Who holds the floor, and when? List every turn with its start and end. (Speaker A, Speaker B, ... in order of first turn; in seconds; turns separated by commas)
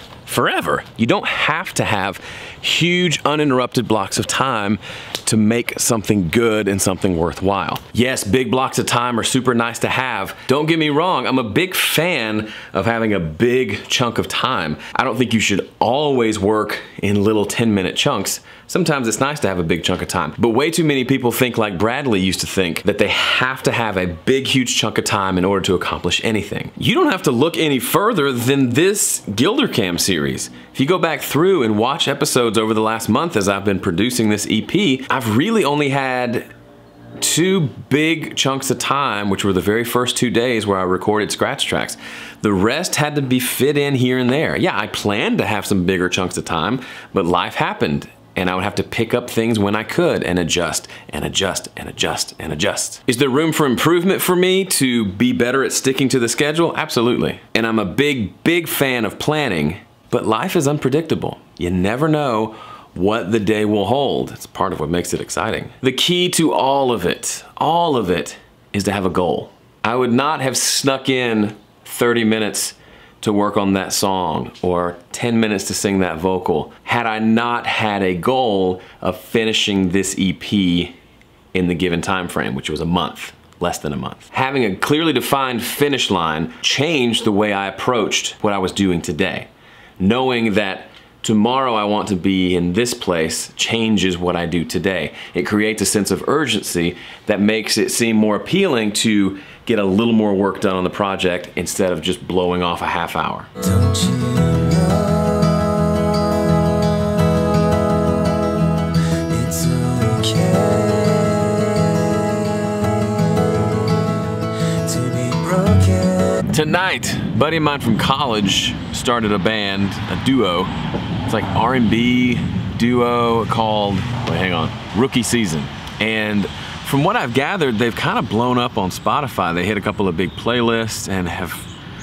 Speaker A: 0.2-36.5, Speaker A: 37.2-80.9, Speaker A: 81.5-89.5, Speaker A: 90.0-104.6, Speaker B: 103.8-106.0, Speaker A: 109.3-111.5, Speaker B: 110.2-110.9, Speaker A: 114.9-120.7, Speaker B: 115.0-116.3, Speaker A: 121.2-131.7